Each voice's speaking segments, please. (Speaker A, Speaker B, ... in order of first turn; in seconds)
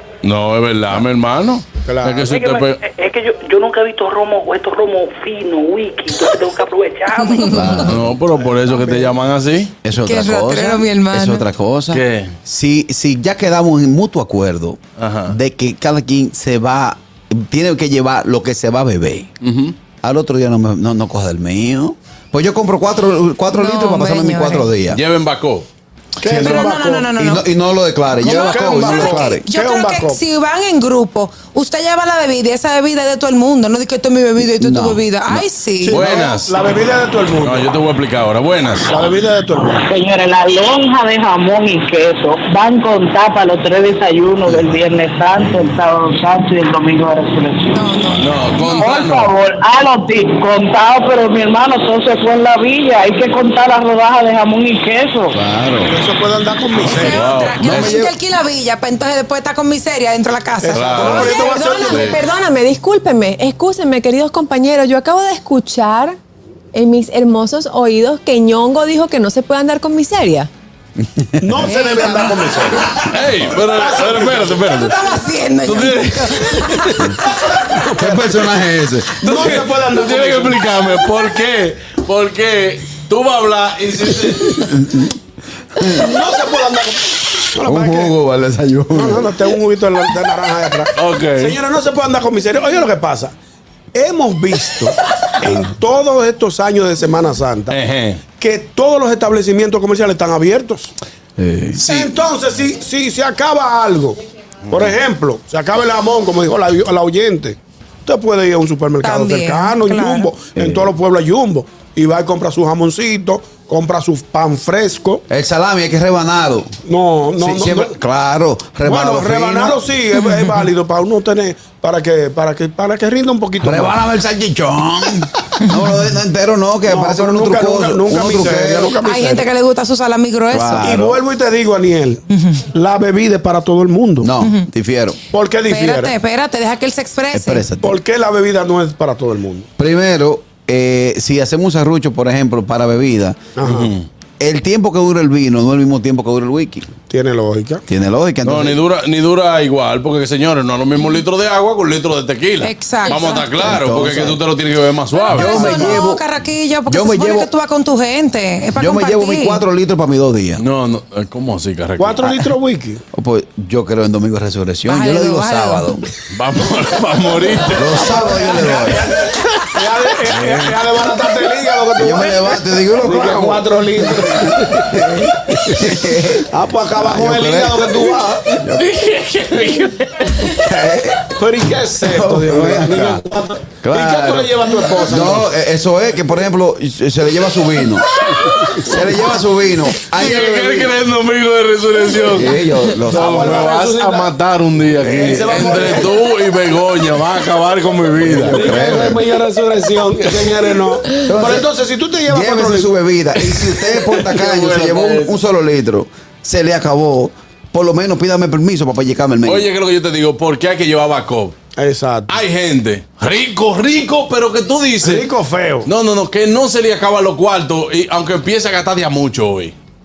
Speaker A: 0.2-2.8, 7.7-9.7, 11.9-12.3, 15.0-15.4, 19.4-19.8, 24.9-25.7, 26.2-26.6, 35.9-36.7, 37.4-38.9, 48.2-49.4, 56.9-58.0, 60.7-62.2, 73.1-75.0, 75.6-77.1, 79.2-84.7, 91.0-91.6, 97.7-98.2, 101.8-102.1, 143.6-144.1, 148.4-156.0, 160.6-162.5, 166.3-168.2, 169.2-171.2, 178.6-180.7, 190.0-199.2, 203.8-205.3, 209.4-211.6, 212.3-215.3, 215.8-219.8
Speaker B: 1.8-2.3, 26.2-27.1, 28.2-30.2, 35.8-37.7, 38.9-39.9, 55.9-57.2, 60.6-62.2, 71.4-73.0, 73.7-74.7, 77.9-78.3, 79.2-80.6, 85.8-88.1, 88.9-93.3, 93.9-97.8, 98.3-100.9, 101.8-104.2, 104.7-115.2, 116.9-117.9, 118.9-124.0, 126.9-129.5, 130.8-134.3, 135.3-136.2, 137.8-139.7, 143.6-143.9, 147.1-147.8, 162.0-163.0, 168.2-169.2, 169.7-175.2, 176.5-178.4, 181.3-185.5, 193.0-194.3, 194.9-196.2, 198.4-202.9, 211.8-212.4, 215.0-215.9
Speaker C: 2.2-7.7
Speaker D: 7.2-7.5, 10.0-11.5, 23.5-24.7, 26.3-27.5, 28.1-36.0, 47.7-48.9, 56.8-61.2, 71.6-73.0, 74.5-77.7, 109.0-110.3, 120.1-120.6, 129.0-130.9, 132.3-132.6, 134.4-134.7, 135.7-137.7, 152.6-153.6, 155.1-159.6, 164.9-165.9
Speaker E: 7.5-8.2, 9.8-19.3, 20.0-25.0, 27.2-29.5, 34.5-35.4, 44.5-45.8, 55.3-55.9, 57.6-58.1, 71.2-71.6, 77.9-79.6, 84.4-85.1, 85.8-86.1, 87.6-89.4, 101.4-101.8, 110.5-110.9, 115.3-116.7, 117.4-119.8, 123.6-128.9, 130.5-131.2, 134.2-135.2, 137.3-138.0, 139.8-143.5, 144.4-146.9, 147.9-148.8, 153.6-154.4, 155.3-156.2, 156.9-157.5, 158.8-160.6, 163.1-166.1, 167.7-169.1, 172.0-176.4, 177.0-178.8, 180.5-181.3, 182.0-183.2, 183.8-188.1, 188.8-190.9, 192.3-193.7, 198.2-199.3, 201.3-201.7, 202.3-209.7
Speaker F: 39.5-47.7, 48.7-55.4
Speaker G: 60.9-66.2, 66.7-70.5